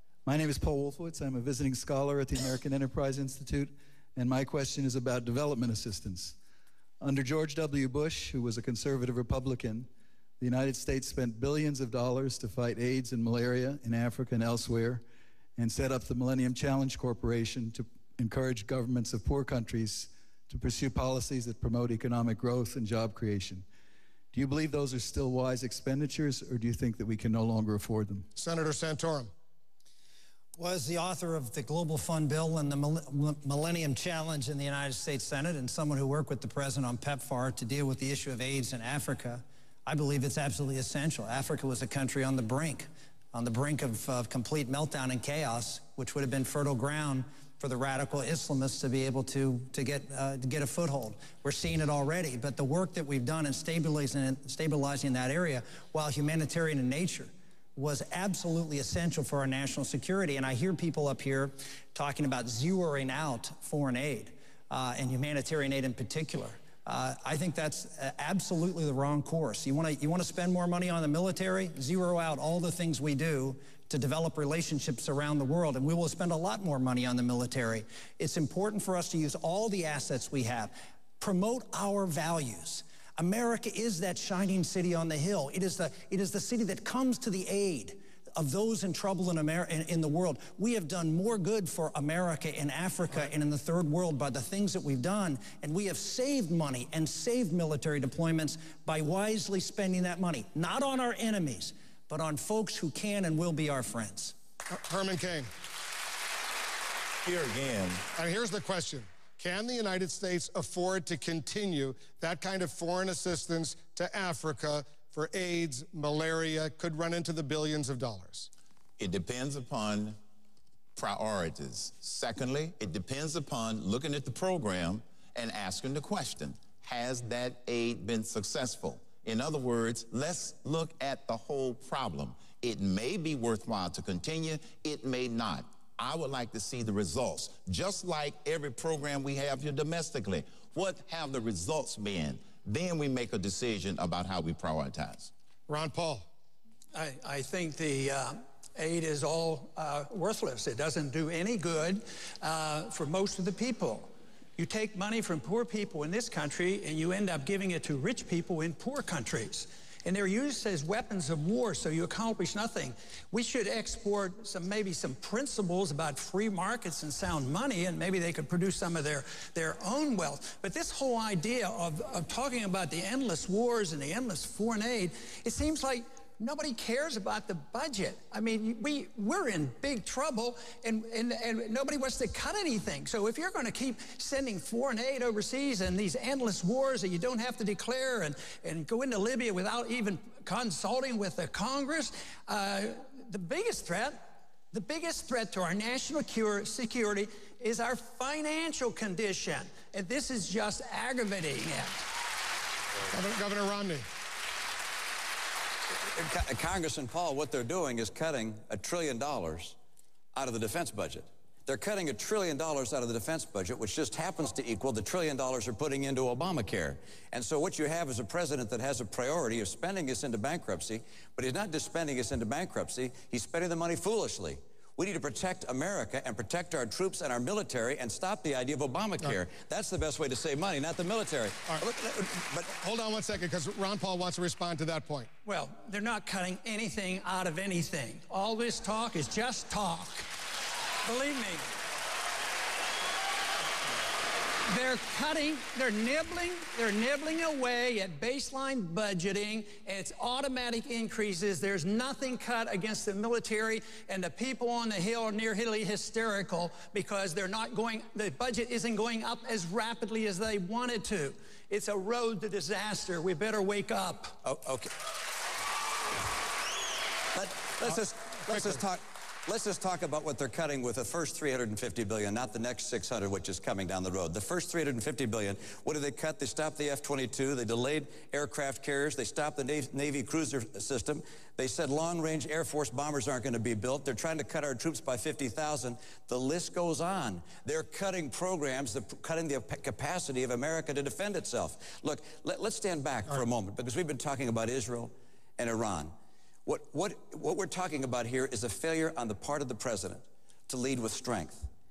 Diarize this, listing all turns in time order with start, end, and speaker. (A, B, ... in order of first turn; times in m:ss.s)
0:00.2-0:06.4 A
0:07.0-0:09.9 A
0:10.4-0:15.0 A
0:15.6-0:23.6 A
0:24.3-0:28.2 A
0:28.4-0:29.3 B
0:30.6-1:44.3 C
1:44.7-1:45.5 B
1:47.2-1:48.0 D
1:48.1-1:58.5 B
1:59.0-2:00.2 D
2:01.0-2:25.3 D
2:25.7-2:26.2 B
2:26.9-3:14.2 E
3:14.7-3:22.0 E
3:23.1-3:24.0 B
3:26.1-3:29.8 F
3:30.3-3:52.7 F
3:52.8-3:55.3 B
3:55.4-4:00.2 E
4:01.0-4:01.6 E
4:04.7-4:24.4 E
4:24.4-4:24.9 F
4:27.3-4:56.1 F
4:56.6-5:01.6 F